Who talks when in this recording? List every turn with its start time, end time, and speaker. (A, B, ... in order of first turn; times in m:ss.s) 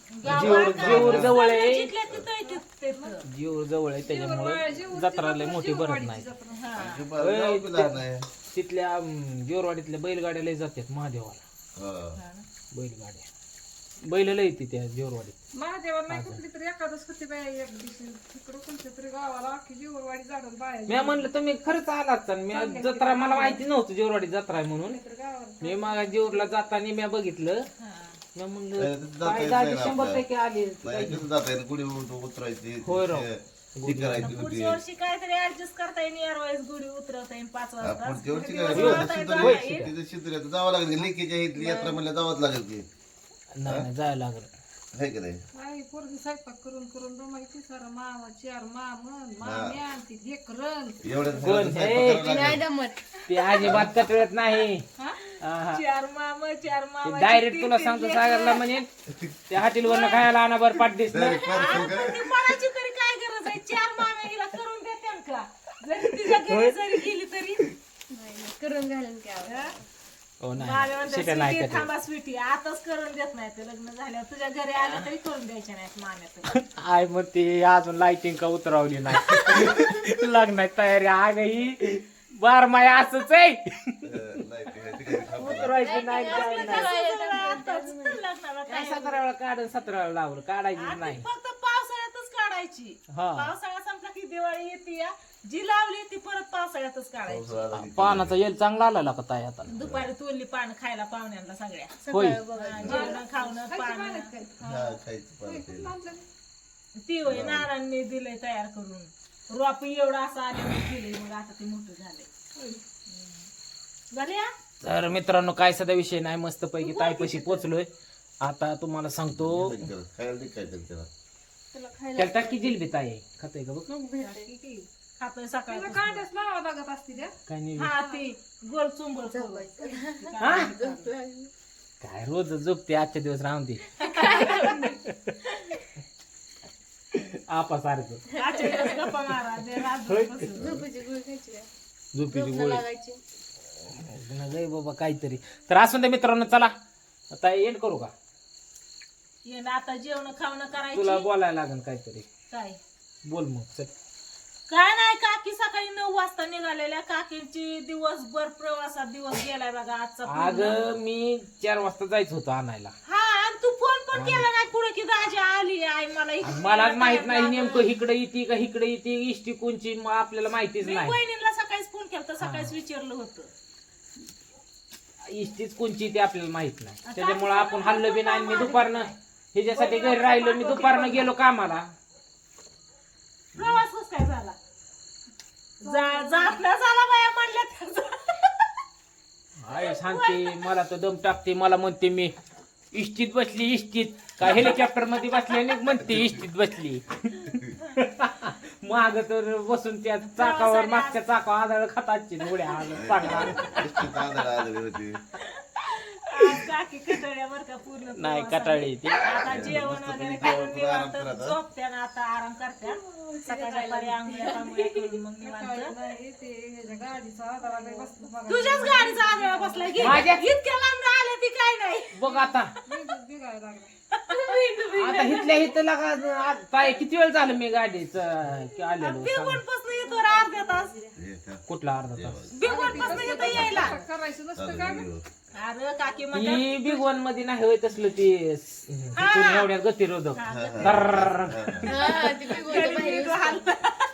0:00.1-0:03.2 A
0:00.2-0:01.4 B
0:00.2-0:01.9 C
0:02.5-0:03.2 D
0:03.2-0:06.3 C
0:04.0-0:06.8 D
0:06.5-0:07.0 A
0:06.8-0:08.3 B
0:07.2-0:11.4 C
0:11.8-0:12.2 B
0:12.2-0:12.5 A
0:12.7-0:13.3 C
0:14.0-0:15.4 C
0:15.5-0:21.3 D
0:16.1-0:16.4 C
0:20.9-0:25.0 C
0:22.5-0:23.6 D
0:24.8-0:26.5 D
0:25.6-0:27.7 C
0:27.8-0:28.2 A
0:28.4-0:31.2 C
0:28.8-0:30.2 B
0:30.8-0:34.8 B
0:32.8-0:34.4 C
0:34.2-0:39.9 A
0:37.8-0:42.9 B
0:38.7-0:39.9 C
0:41.6-0:42.0 E
0:43.5-0:44.5 C
0:44.9-0:45.4 B
0:45.5-0:51.0 D
0:49.4-0:49.8 B
0:51.0-0:52.6 B
0:51.4-0:52.5 C
0:52.0-0:53.1 E
0:53.3-0:54.8 C
0:53.4-0:53.9 A
0:53.6-0:53.9 B
0:55.4-0:55.8 C
0:55.7-0:58.7 A
0:57.0-0:58.9 C
0:59.1-0:59.5 B
0:59.5-1:01.9 C
0:59.8-1:00.4 A
1:01.1-1:02.6 B
1:01.3-1:07.7 A
1:06.2-1:06.8 C
1:08.1-1:09.8 E
1:09.4-1:09.8 A
1:10.4-1:11.9 C
1:10.6-1:16.6 A
1:16.5-1:24.1 C
1:24.0-1:25.8 B
1:25.3-1:27.0 C
1:25.7-1:29.2 E
1:25.8-1:29.1 A
1:28.7-1:31.3 C
1:30.8-1:37.9 A
1:33.1-1:33.5 C
1:37.3-1:38.4 B
1:37.8-1:39.7 C
1:39.7-1:42.0 A
1:39.8-1:40.1 B
1:42.0-1:43.4 E
1:42.1-1:42.4 C
1:42.5-1:44.3 A
1:42.8-1:46.2 D
1:44.6-1:45.9 B
1:47.0-1:52.3 A
1:47.2-1:47.7 B
1:53.1-1:53.5 A
1:54.1-1:54.5 A
1:54.8-1:57.9 C
1:56.8-1:57.6 A
1:58.4-1:59.8 C
1:59.3-2:01.1 B
2:01.7-2:02.8 E
2:02.2-2:04.1 C
2:04.0-2:04.5 E
2:04.2-2:06.3 A
2:05.7-2:07.4 D
2:07.5-2:07.9 C
2:07.8-2:11.1 A
2:09.2-2:11.5 E
2:10.4-2:10.7 C
2:12.0-2:15.3 C
2:14.0-2:14.8 A
2:14.2-2:14.8 E
2:17.1-2:18.2 C
2:18.3-2:19.0 E
2:18.3-2:20.7 A
2:20.1-2:20.5 C
2:20.6-2:21.7 E
2:20.6-2:20.9 B
2:22.1-2:22.8 C
2:22.3-2:23.2 E
2:23.9-2:26.8 C
2:27.3-2:28.1 C
2:29.4-2:31.3 A
2:30.9-2:32.3 C
2:32.5-2:32.8 A
2:33.2-2:33.9 C
2:34.7-2:40.9 A
2:40.3-2:42.9 C
2:43.1-2:47.9 A
2:44.1-2:44.5 C
2:46.4-2:51.2 C
2:50.7-2:53.5 A
2:52.4-2:52.7 C
2:55.3-3:01.9 C
2:57.0-2:59.2 A
2:59.7-3:01.4 A
3:03.6-3:04.6 A
3:05.8-3:08.7 A
3:09.6-3:12.3 C
3:09.7-3:10.6 A
3:12.9-3:23.9 C
3:16.0-3:16.4 B
3:20.4-3:21.2 A
3:22.9-3:25.2 B
3:25.8-3:36.0 A
3:28.2-3:29.8 C
3:29.5-3:31.6 B
3:32.8-3:35.2 E
3:35.4-3:40.3 D
3:37.6-3:38.2 E
3:38.5-3:42.3 A
3:40.0-3:40.5 C
3:42.1-3:42.7 C
3:42.8-3:43.9 D
3:44.1-3:45.8 A
3:45.0-3:49.6 C
3:49.0-3:51.0 A
3:50.1-3:50.8 E
3:51.2-3:53.8 B
3:51.7-3:52.5 C
3:52.5-3:54.0 A
3:52.6-3:55.1 D
3:54.6-3:55.3 B
3:55.5-3:57.1 A
3:56.3-4:02.2 C
3:59.2-3:59.7 A
4:00.3-4:01.3 A
4:00.5-4:02.0 B
4:01.8-4:03.7 E
4:01.9-4:04.0 A